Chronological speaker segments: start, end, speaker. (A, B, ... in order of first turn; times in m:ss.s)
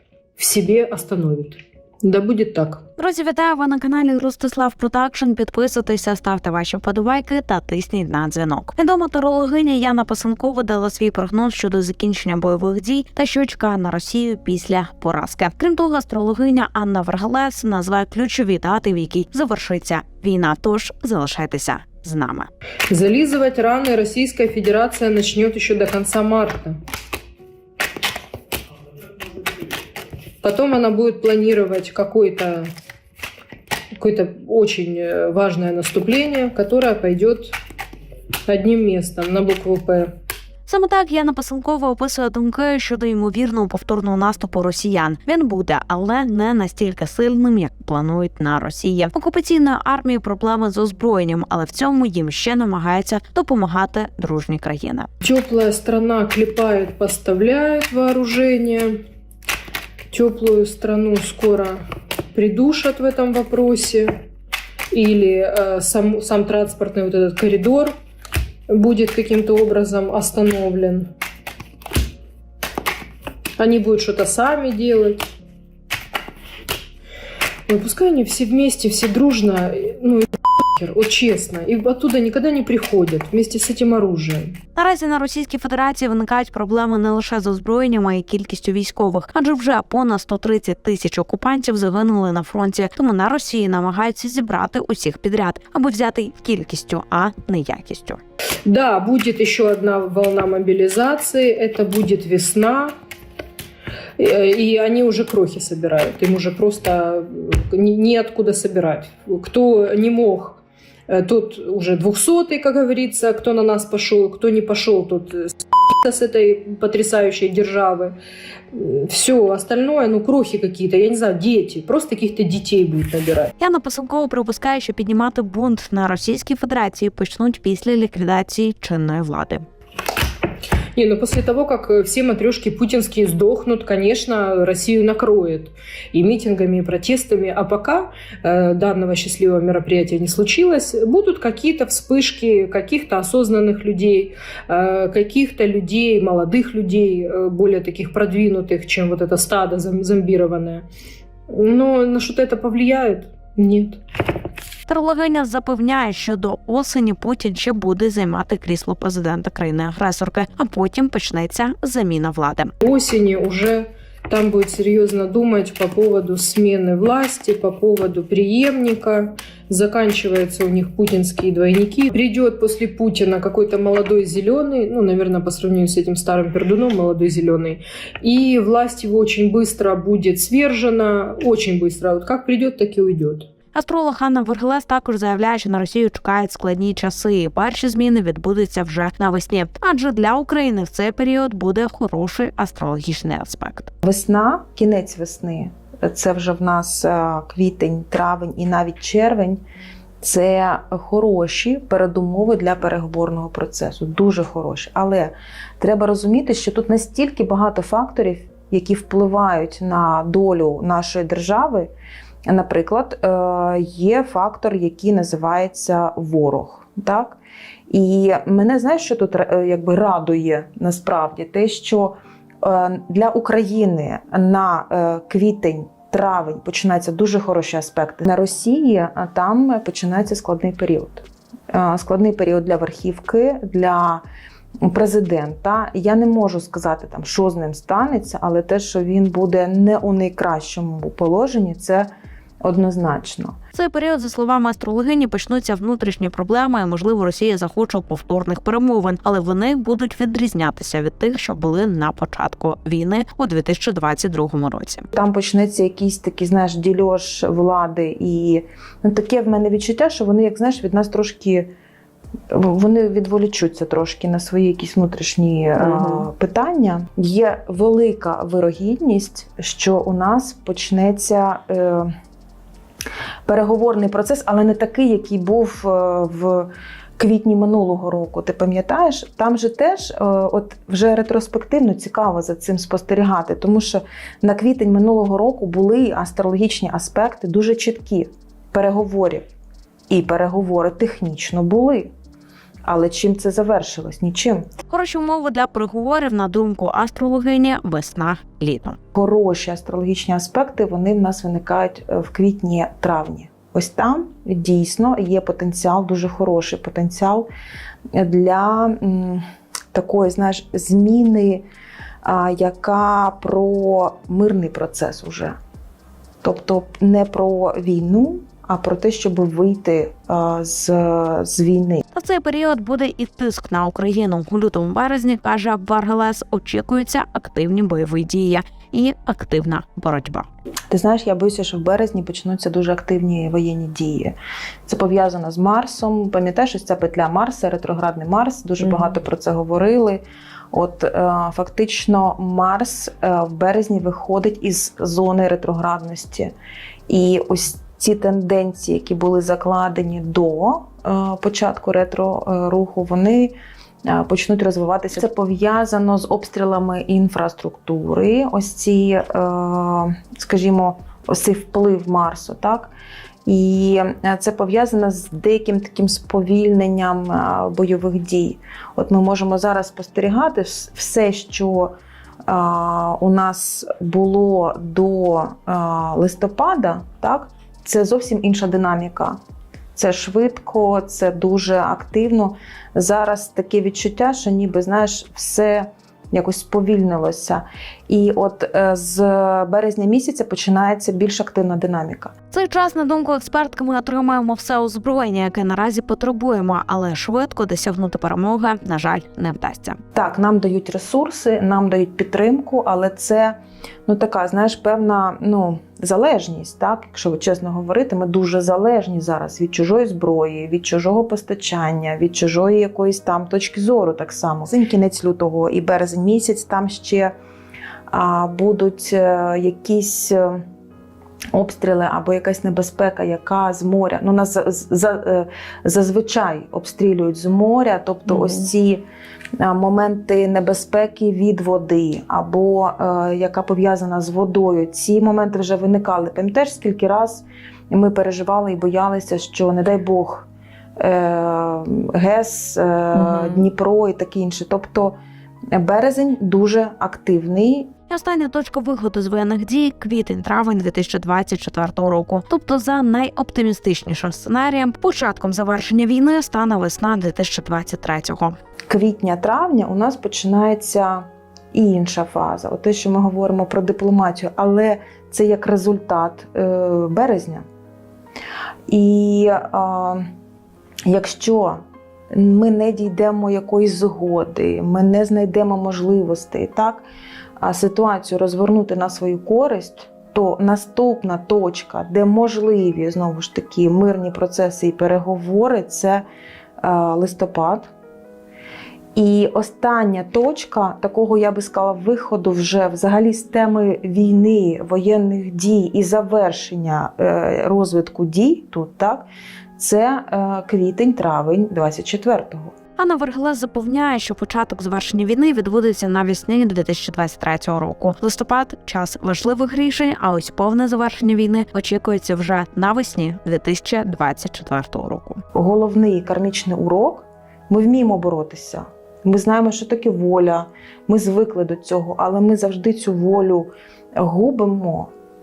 0:00.4-0:02.8 A
0:03.0-0:22.5 B
0:22.9-0:26.8 A
0:30.4-0:32.7 A
0:33.9-0:37.5 A
0:38.5-0:40.1 A
0:40.7-0:55.1 B
0:55.2-0:59.0 A
1:00.1-1:01.8 A
1:02.3-1:04.1 A
1:04.9-1:07.9 A
1:08.7-1:11.1 A
1:13.6-1:15.3 A
1:17.7-1:24.6 A
1:24.8-1:38.2 B
1:38.6-1:43.0 A
1:44.2-1:58.2 A
1:58.7-2:03.5 A
2:03.6-2:09.7 B
2:11.0-2:30.9 A
2:31.5-2:34.0 A
2:34.9-2:42.7 B
2:42.8-3:03.5 A
3:03.7-3:13.9 B
3:14.0-3:19.6 C
3:20.2-3:31.9 C
3:32.5-3:54.2 C
3:54.8-4:02.1 C
4:02.6-4:03.6 C
4:03.7-4:15.0 B
4:15.1-4:21.7 C
4:22.5-4:32.1 C
4:33.5-4:49.5 C
4:50.1-4:52.1 C
4:52.8-4:54.6 C
4:54.9-4:59.0 B
4:59.1-5:07.5 C
5:08.2-5:11.6 C
5:12.2-5:15.6 C
5:16.4-5:22.0 C
5:22.1-5:30.5 B
5:30.9-5:34.4 C
5:34.9-5:46.5 C
5:47.1-5:53.6 C
5:54.1-6:02.9 C
6:03.4-6:11.9 C
6:12.5-6:19.4 C
6:20.0-6:32.3 C
6:32.5-6:40.0 B
6:40.1-6:57.3 C
6:58.1-7:00.6 C
7:01.5-7:09.0 C
7:08.3-7:08.7 B
7:09.6-7:20.5 C
7:21.0-7:25.2 C
7:23.1-7:23.7 B
7:25.7-7:27.9 C
7:28.1-7:38.6 B
7:38.9-7:47.7 C
7:48.9-7:50.2 C
7:51.1-7:57.1 C
7:57.6-8:06.2 C
8:06.8-8:07.9 C
8:09.2-8:19.3 C
8:19.8-8:22.7 C
8:23.0-8:35.4 B
8:35.5-8:45.1 C